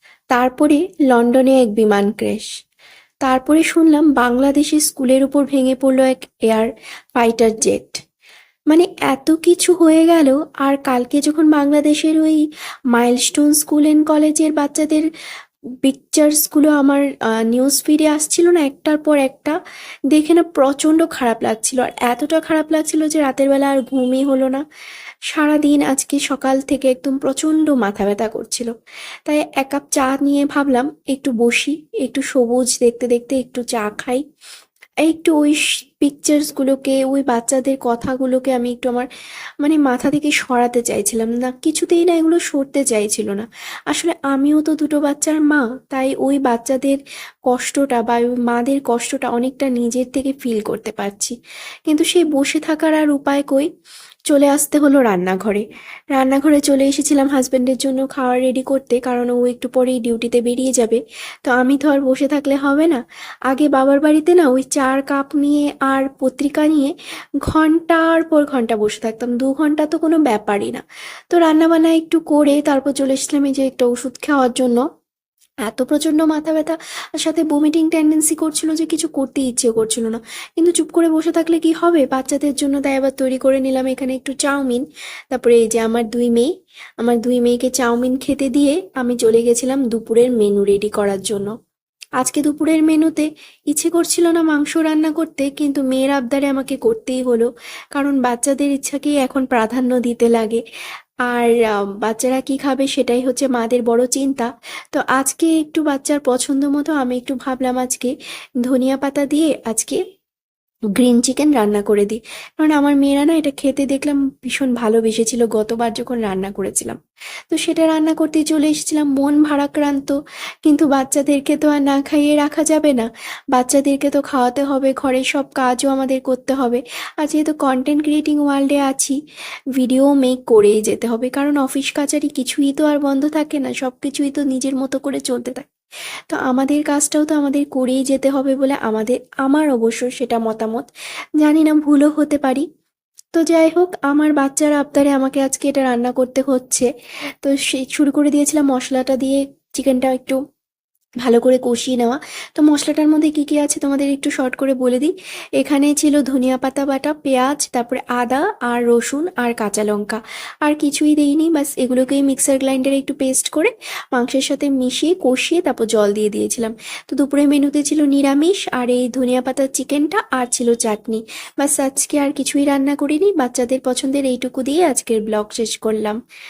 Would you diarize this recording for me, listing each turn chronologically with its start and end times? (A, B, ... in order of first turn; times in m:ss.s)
0:00.3-0:02.5 A
0:03.2-0:08.0 A
0:08.7-0:12.4 A
0:12.9-0:15.1 A
0:15.8-0:19.6 A
0:20.1-0:24.6 A
0:25.3-0:28.7 A
0:29.3-0:34.2 A
0:35.0-0:39.1 A
0:39.6-0:47.0 A
0:47.5-0:51.3 A
0:51.9-0:53.7 A
0:54.3-1:06.9 A
1:07.5-1:14.8 A
1:15.7-1:26.5 A
1:27.0-1:31.5 A
1:32.2-1:40.6 A
1:41.3-1:48.1 A
1:48.6-1:50.0 A
1:51.0-1:57.0 A
1:57.5-2:09.2 A
2:09.8-2:15.7 A
2:16.3-2:20.9 A
2:21.4-2:22.7 A
2:23.4-2:26.9 A
2:27.4-2:30.4 A
2:31.2-2:56.2 A